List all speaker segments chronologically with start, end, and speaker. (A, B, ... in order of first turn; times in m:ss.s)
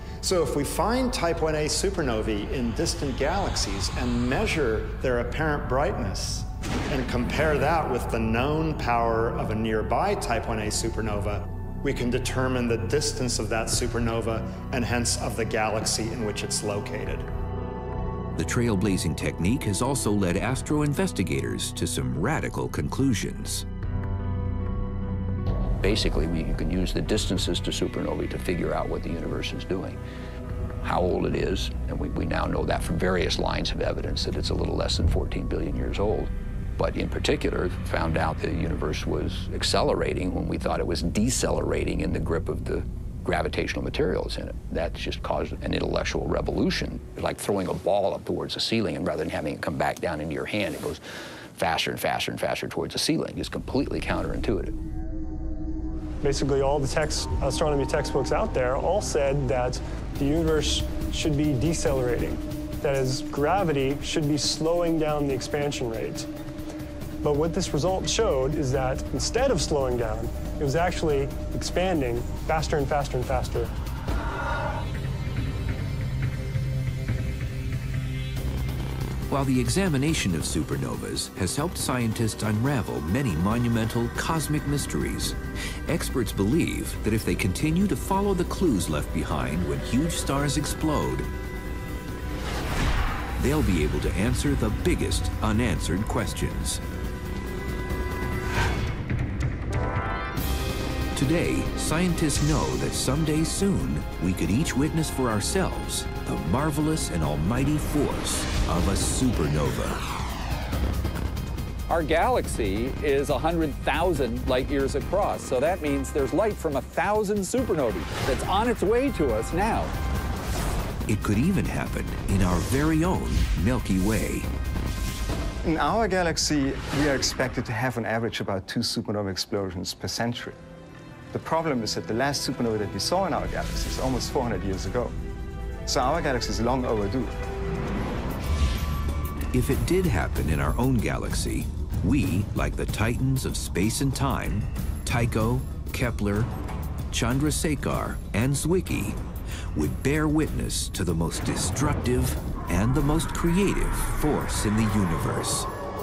0:00.2-0:17.3 A
0:18.4-0:23.6 B
0:25.8-0:30.0 C
0:30.8-0:51.0 C
0:51.6-0:54.7 C
0:56.2-1:06.3 D
1:07.2-1:13.7 D
1:19.3-1:31.3 B
1:33.4-1:36.8 B
1:41.1-1:50.0 B
1:51.9-1:59.9 E
2:01.1-2:04.5 B
2:05.6-2:10.6 F
2:11.3-2:15.2 F
2:15.8-2:17.3 F
2:19.5-2:26.5 B
2:27.1-2:29.2 B
2:29.7-2:35.7 B